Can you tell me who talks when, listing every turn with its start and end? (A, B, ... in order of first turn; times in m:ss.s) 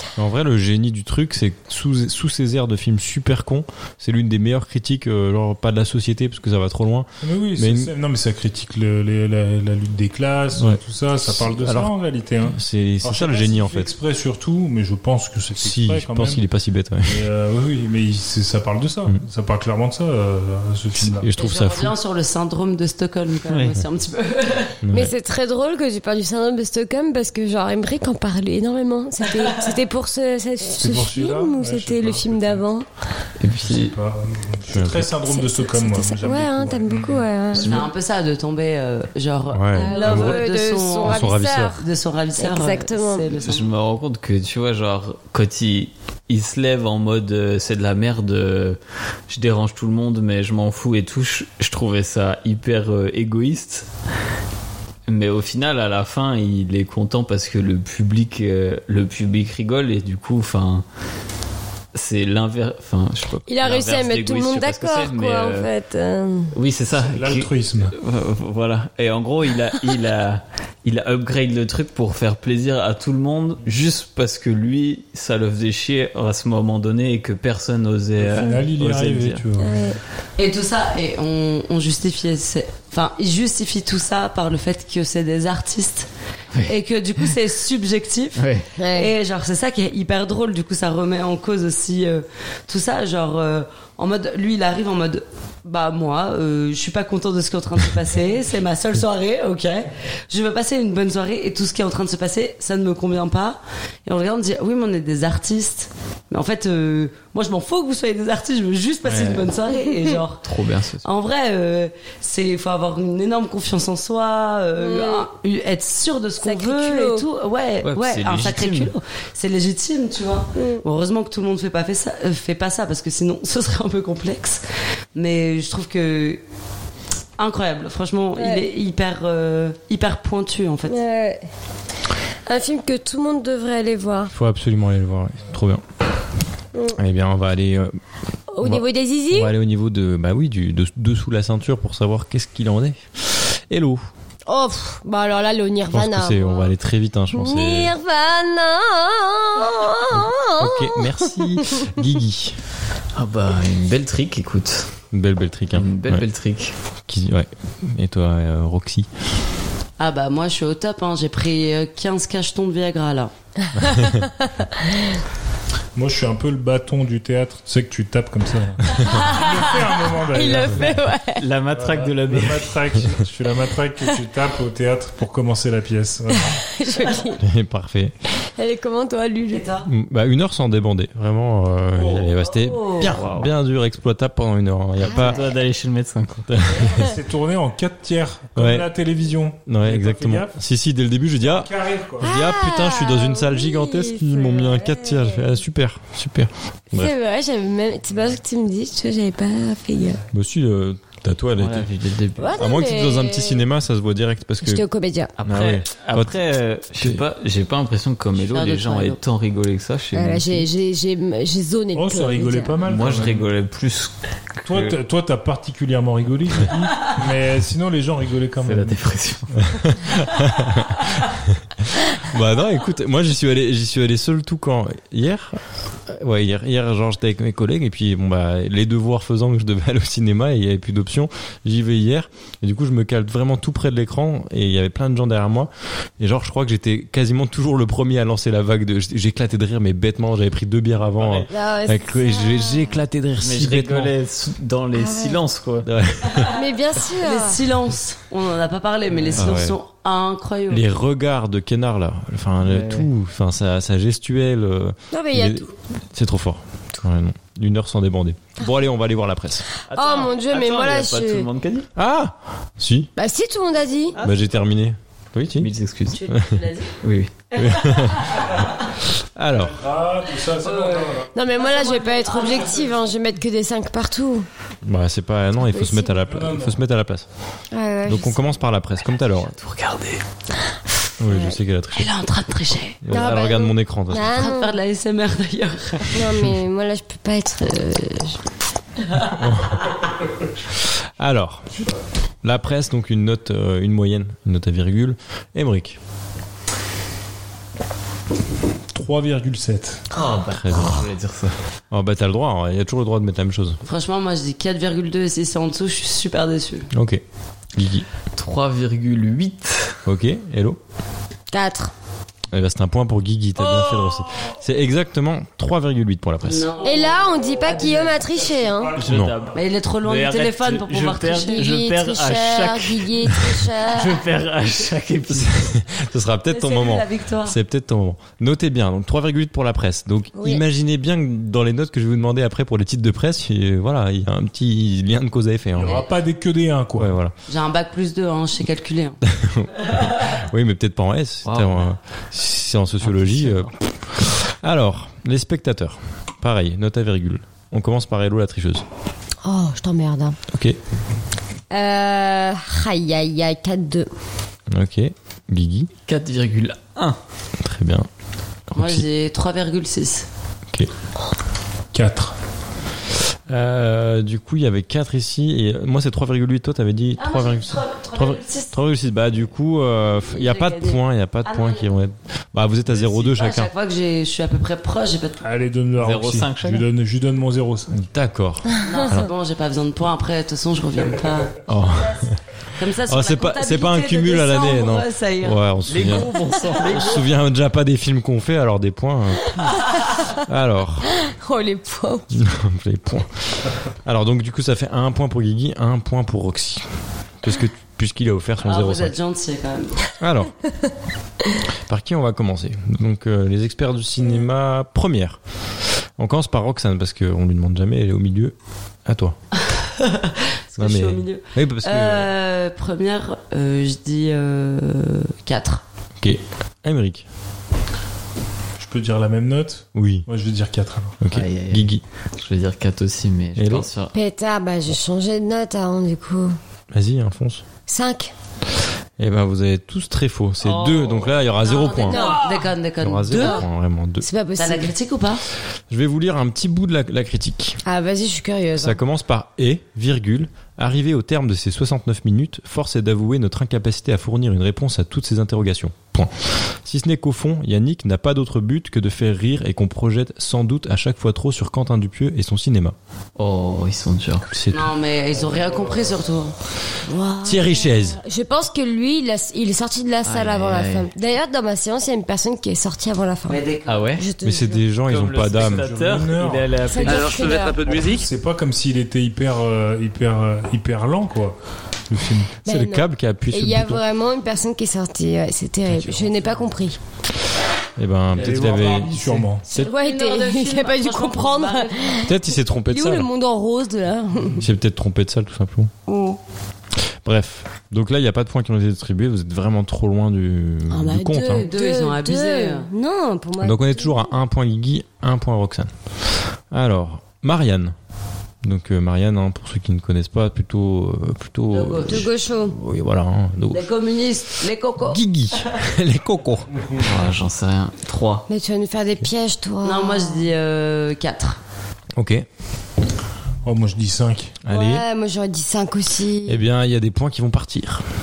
0:00.2-0:07.9 A
0:07.2-0:16.4 B
0:10.6-0:11.9 A
0:12.5-0:13.9 A
0:15.6-0:17.3 A
0:17.1-0:21.3 B
0:21.0-0:21.9 A
0:21.4-0:24.8 C
0:23.5-0:23.7 D
0:24.8-0:25.1 A
0:24.9-0:32.8 E
0:30.8-0:32.6 B
0:33.4-0:34.0 D
0:33.4-0:37.2 B
0:34.7-0:35.1 A
0:35.3-0:37.6 E
0:37.5-0:37.9 D
0:37.6-0:43.7 C
0:39.5-0:40.3 A
0:39.7-0:41.8 E
0:41.1-0:41.8 A
0:42.4-0:43.2 E
0:43.4-0:48.8 D
0:49.3-0:53.9 D
0:55.1-1:00.8 D
1:02.0-1:05.7 D
1:03.5-1:06.5 E
1:06.5-1:19.4 D
1:06.9-1:07.9 B
1:18.2-1:19.8 B
1:19.6-1:20.0 E
1:20.4-1:26.1 C
1:26.7-1:50.4 C
1:28.4-1:28.7 D
1:28.8-1:29.1 E
1:49.0-1:49.5 D
1:50.4-1:51.1 D
1:51.0-2:04.6 C
1:54.8-1:55.2 E
1:56.4-1:57.2 E
1:57.8-1:58.9 D
2:00.6-2:00.8 E
2:05.2-2:06.4 C
2:07.4-2:11.0 C
2:08.4-2:08.6 E
2:10.9-2:11.4 E
2:12.5-2:14.3 E
2:14.3-2:15.8 A
2:17.0-2:18.0 A
2:18.5-2:19.5 E
2:18.6-2:24.1 A
2:24.5-2:26.7 E
2:25.9-2:27.9 A
2:27.3-2:31.8 E
2:30.1-2:32.6 A
2:33.2-2:34.9 D
2:35.1-2:36.2 A
2:35.7-2:36.7 D
2:37.1-2:39.1 A
2:40.0-2:43.3 C
2:43.8-2:44.9 E
2:43.8-2:44.2 A
2:46.0-2:51.0 B
2:49.1-2:49.4 E
2:50.3-2:51.4 E
2:51.4-2:52.8 D
2:51.7-2:56.6 B
2:56.5-2:57.4 E
2:57.4-2:58.1 A
2:58.6-2:59.7 E
2:59.5-2:59.9 C
2:59.8-3:05.4 A
3:02.0-3:02.3 B
3:02.4-3:03.1 C
3:03.0-3:03.5 D
3:05.0-3:05.4 E
3:05.1-3:06.5 D
3:06.5-3:07.1 A
3:06.8-3:10.5 B
3:08.6-3:08.9 A
3:09.7-3:17.1 A
3:11.4-3:12.3 B
3:12.2-3:15.5 E
3:16.9-3:20.2 E
3:20.3-3:21.9 A
3:21.6-3:22.6 D
3:22.4-3:23.6 E
3:22.6-3:24.8 A
3:24.6-3:25.3 E
3:25.4-3:30.7 D
3:25.4-3:26.4 A
3:27.0-3:27.2 A
3:28.4-3:29.2 C
3:30.2-3:32.7 E
3:31.9-3:33.5 B
3:32.8-3:35.0 D
3:34.7-3:39.1 B
3:38.6-3:39.6 D
3:39.6-3:41.0 A
3:41.6-4:04.1 A
4:01.2-4:01.5 D
4:01.5-4:02.9 E
4:03.4-4:05.9 D
4:05.0-4:05.4 E
4:05.8-4:06.5 A
4:06.5-4:07.6 E
4:07.2-4:10.8 C
4:09.1-4:09.6 D
4:09.4-4:09.8 A
4:10.7-4:19.6 A
4:12.6-4:13.1 D
4:15.1-4:15.7 E
4:19.9-4:21.9 D
4:19.9-4:21.5 E
4:22.0-4:23.1 A
4:23.2-4:24.2 E
4:24.2-4:24.6 D
4:24.2-4:25.7 A
4:25.6-4:26.2 D
4:26.1-4:27.0 C
4:26.3-4:26.6 A
4:27.0-4:27.5 D
4:27.6-4:28.4 C
4:27.6-4:28.5 A
4:29.2-4:29.8 A
4:29.6-4:31.3 B
4:30.6-4:33.0 C
4:31.3-4:34.5 E
4:34.8-4:37.3 A
4:35.7-4:36.2 E
4:36.3-4:36.8 B
4:37.7-4:38.4 E
4:38.1-4:39.6 A
4:39.4-4:40.2 D
4:41.2-4:42.1 A
4:41.3-4:41.6 E
4:41.9-4:43.0 C
4:43.0-4:44.5 A
4:43.1-4:44.8 E
4:44.2-4:46.2 C
4:46.1-4:48.4 E
4:49.3-4:49.8 A
4:51.2-4:51.7 A
4:52.4-4:56.0 A
4:58.9-5:00.0 B
5:00.1-5:01.5 D
5:00.5-5:01.1 A
5:01.9-5:03.8 A
5:03.8-5:06.9 C
5:06.9-5:07.2 A
5:07.8-5:08.1 A
5:08.4-5:10.0 D
5:10.1-5:10.8 A
5:11.5-5:11.9 E
5:12.5-5:16.7 A
5:16.4-5:17.9 C
5:16.8-5:18.9 E
5:17.4-5:19.0 B
5:19.0-5:23.1 D
5:19.0-5:19.4 A
5:19.6-5:21.6 C
5:21.4-5:24.2 E
5:23.9-5:25.8 D
5:25.3-5:36.0 A
5:26.5-5:27.6 C
5:30.4-5:30.6 E
5:35.8-5:37.1 B
5:37.0-5:37.3 A
5:37.5-5:39.2 C
5:39.2-5:48.8 A
5:41.5-5:41.9 D
5:43.0-5:43.7 D
5:49.4-5:50.4 E
5:50.5-5:50.8 A
5:51.7-5:54.1 E
5:54.7-5:55.9 A
5:56.1-5:57.2 D
5:57.6-5:58.1 A
5:58.7-5:59.0 A
5:58.8-6:00.3 C
6:01.9-6:02.4 B
6:03.5-6:13.7 A
6:07.2-6:08.7 C
6:10.3-6:11.9 C
6:13.0-6:15.4 C
6:15.4-6:17.9 B
6:16.0-6:16.8 D
6:17.9-6:19.3 A
6:18.9-6:21.6 C
6:21.7-6:22.4 A
6:22.8-6:25.6 C
6:23.1-6:29.6 A
6:25.9-6:27.2 D
6:30.4-6:31.1 A
6:31.2-6:32.3 E
6:32.3-6:36.9 A
6:37.4-6:39.2 A
6:38.6-6:40.0 C
6:40.2-6:40.5 A
6:41.9-6:45.4 A
6:46.2-6:48.5 A
6:49.1-6:49.4 A
6:49.8-6:55.8 C
6:50.8-6:52.3 A
6:56.2-6:57.3 A
6:58.8-7:01.2 B
7:00.0-7:00.3 A
7:01.2-7:02.0 A
7:01.3-7:04.1 D
7:03.6-7:03.9 A
7:04.1-7:06.5 E
7:06.9-7:07.6 A
7:07.9-7:08.3 E
7:09.2-7:12.3 A
7:10.6-7:11.3 D
7:11.6-7:13.6 C
7:12.1-7:12.4 E
7:13.0-7:14.3 A
7:13.4-7:13.6 E
7:14.2-7:14.9 E
7:14.6-7:15.4 C
7:15.9-7:17.8 A
7:17.9-7:19.0 E
7:18.8-7:33.0 A
7:33.4-7:34.5 D
7:34.5-7:34.9 A
7:34.7-7:36.5 C
7:37.1-7:43.6 E
7:37.4-7:38.2 A
7:40.3-7:41.1 D
7:43.5-7:44.1 C
7:43.9-7:44.2 D
7:44.2-7:44.8 E
7:44.4-7:45.9 A
7:45.1-7:48.2 D
7:45.6-7:51.6 B
7:46.9-7:47.8 E
7:52.1-7:52.5 B
7:52.6-7:54.0 A
7:52.7-7:57.0 E
7:55.9-7:56.3 A
7:58.0-7:59.9 A
7:58.3-7:59.6 B
7:59.7-8:02.3 E
7:59.7-8:02.3 C
8:02.2-8:03.3 A
8:02.9-8:04.6 E
8:04.6-8:05.9 A
8:06.1-8:06.4 E
8:07.2-8:11.7 A
8:10.9-8:14.4 E
8:11.5-8:12.9 C
8:13.6-8:15.9 A
8:16.7-8:18.0 A
8:18.6-8:23.9 A
8:21.7-8:22.2 C
8:22.1-8:22.8 E
8:23.7-8:25.6 C
8:25.0-8:26.7 A
8:27.0-8:28.5 D
8:28.5-8:30.4 E
8:29.8-8:31.6 C
8:32.2-8:32.5 A
8:33.6-8:34.6 B
8:34.6-8:35.0 A
8:34.7-8:36.6 E
8:36.5-8:38.0 A